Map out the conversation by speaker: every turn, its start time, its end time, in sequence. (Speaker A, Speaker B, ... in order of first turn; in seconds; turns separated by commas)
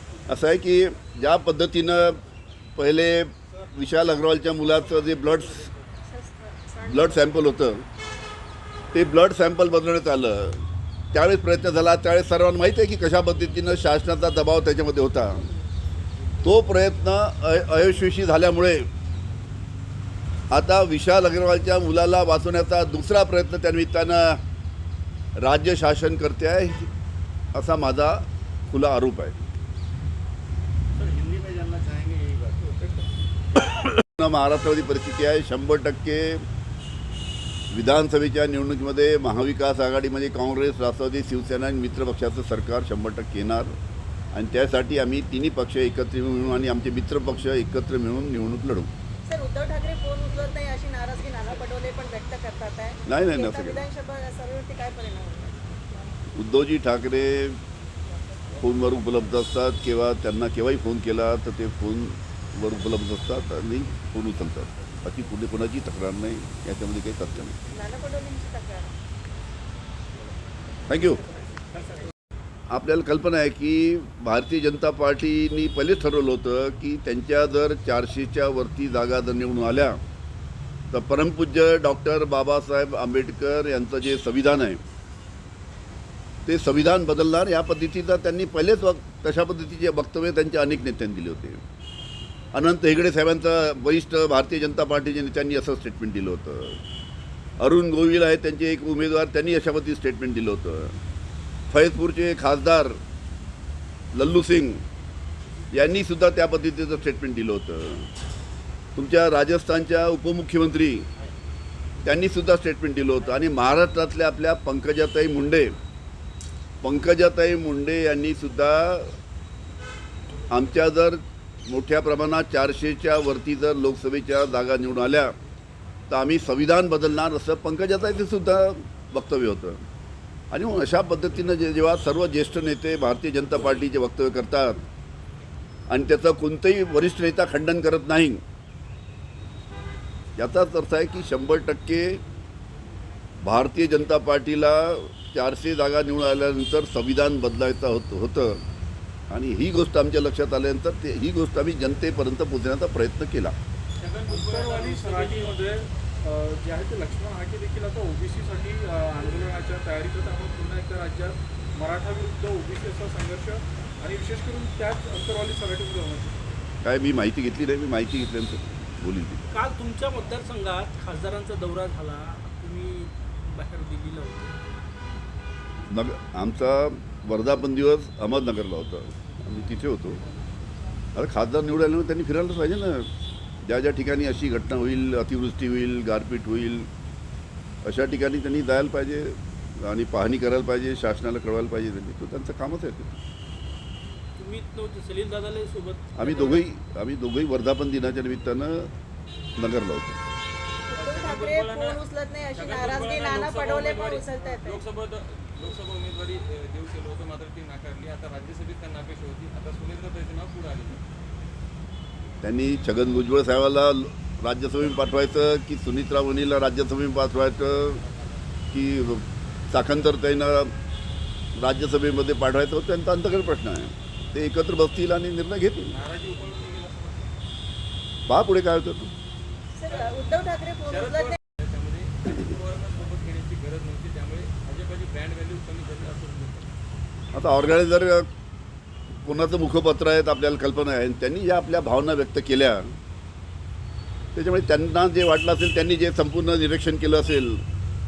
Speaker A: 0.3-2.2, Speaker A: 2.8-5.7, Speaker B: 6.0-7.5, Speaker A: 6.8-7.8, Speaker A: 8.9-10.6, Speaker A: 11.1-15.4, Speaker A: 16.4-18.9, Speaker A: 20.5-24.4, Speaker A: 25.4-26.9, Speaker A: 27.5-29.4, Speaker C: 31.0-32.8, Speaker A: 33.8-36.4, Speaker A: 37.7-43.7, Speaker A: 44.3-48.9, Speaker B: 49.2-55.7, Speaker A: 53.1-53.8, Speaker A: 56.3-57.6, Speaker A: 58.6-67.5, Speaker B: 67.7-69.0, Speaker A: 70.9-71.2, Speaker A: 72.7-80.0, Speaker A: 80.9-84.8, Speaker A: 86.4-91.6, Speaker A: 92.5-96.8, Speaker A: 97.6-101.0, Speaker A: 101.7-103.0, Speaker A: 104.1-104.8, Speaker A: 105.7-108.1, Speaker A: 109.0-111.0, Speaker A: 112.0-115.7, Speaker A: 116.8-119.1, Speaker A: 120.5-125.3, Speaker A: 126.1-129.8, Speaker A: 130.5-134.8, Speaker A: 135.9-138.4, Speaker A: 140.4-142.2, Speaker A: 143.4-148.6, Speaker A: 149.3-153.5, Speaker C: 154.0-155.7, Speaker D: 154.3-166.4, Speaker A: 166.8-169.4, Speaker E: 169.5-174.6, Speaker A: 175.9-180.2, Speaker A: 181.1-183.1, Speaker A: 183.6-186.9, Speaker A: 187.8-193.1, Speaker E: 194.3-196.6, Speaker A: 196.2-198.9, Speaker A: 199.6-200.2, Speaker B: 200.9-204.8, Speaker C: 200.9-202.0, Speaker C: 202.5-211.0, Speaker A: 212.4-218.0, Speaker A: 218.7-220.7, Speaker A: 221.6-226.0, Speaker C: 225.9-227.3, Speaker A: 228.3-229.1, Speaker B: 229.7-231.4, Speaker C: 229.9-236.7, Speaker A: 237.3-238.3, Speaker A: 239.2-242.9, Speaker A: 244.3-247.6